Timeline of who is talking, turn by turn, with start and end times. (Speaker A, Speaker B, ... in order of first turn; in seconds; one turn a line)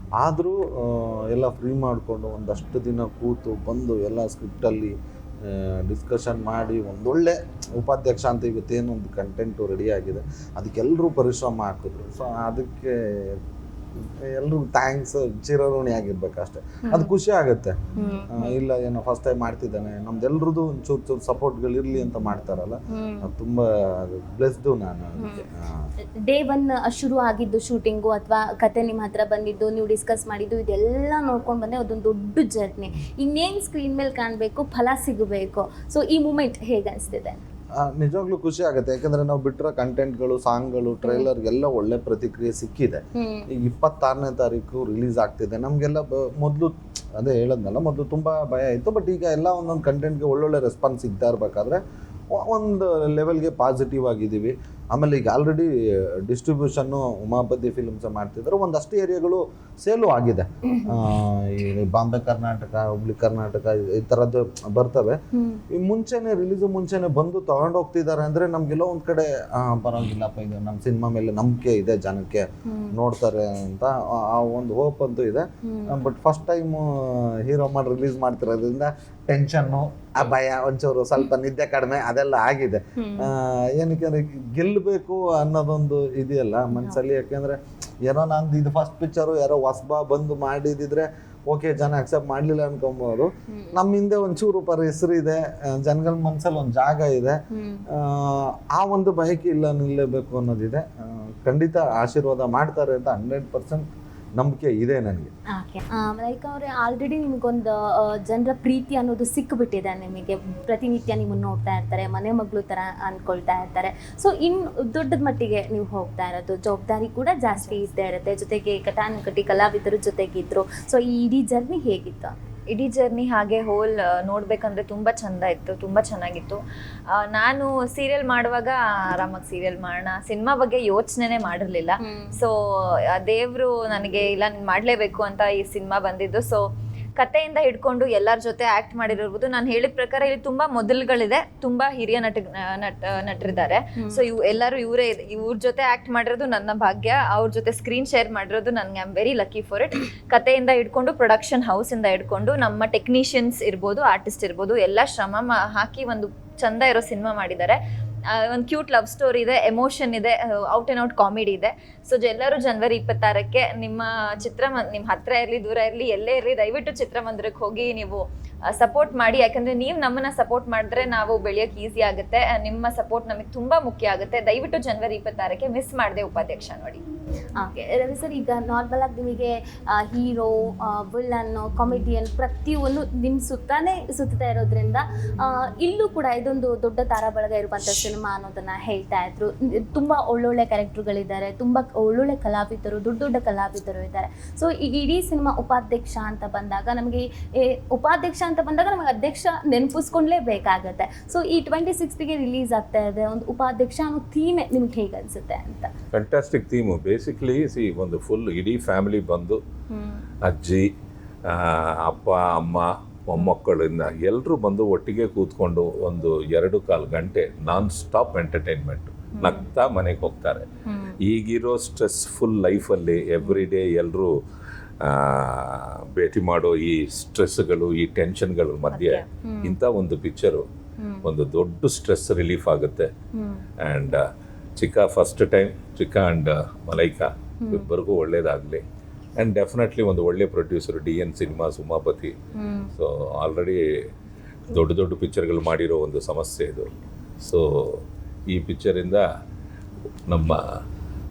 Speaker A: 0.2-13.4
Speaker A: 14.3-17.8
Speaker B: 17.9-18.6
Speaker A: 18.3-25.9
Speaker B: 22.9-23.3
Speaker B: 25.2-25.4
Speaker B: 26.3-37.4
Speaker A: 37.8-43.0
Speaker B: 43.2-43.5
Speaker A: 43.5-51.8
Speaker A: 52.3-65.2
Speaker B: 60.7-60.9
Speaker B: 65.3-65.6
Speaker A: 65.7-97.4
Speaker B: 72.7-72.9
Speaker B: 75.6-76.0
Speaker B: 83.0-83.3
Speaker B: 86.7-87.0
Speaker B: 93.5-93.8
Speaker B: 97.5-97.8
Speaker A: 97.9-103.8
Speaker A: 104.4-105.3
Speaker B: 105.6-122.3
Speaker C: 117.6-117.9
Speaker C: 122.7-126.6
Speaker C: 127.2-136.6
Speaker B: 132.0-132.4
Speaker C: 137.2-157.8
Speaker C: 158.3-177.0
Speaker B: 177.6-205.9
Speaker D: 206.1-209.6
Speaker B: 209.9-210.2
Speaker D: 210.4-210.9
Speaker D: 211.5-220.7
Speaker B: 220.9-221.1
Speaker D: 221.2-224.3
Speaker D: 225.0-230.7
Speaker C: 228.9-229.2
Speaker B: 229.5-229.7
Speaker B: 231.0-231.3
Speaker D: 231.2-233.1
Speaker B: 233.3-233.6
Speaker D: 233.8-234.2
Speaker D: 234.8-238.8
Speaker D: 239.4-242.3
Speaker B: 242.6-242.9
Speaker D: 243.0-243.8
Speaker D: 244.7-246.9
Speaker D: 247.4-249.2
Speaker D: 250.3-250.6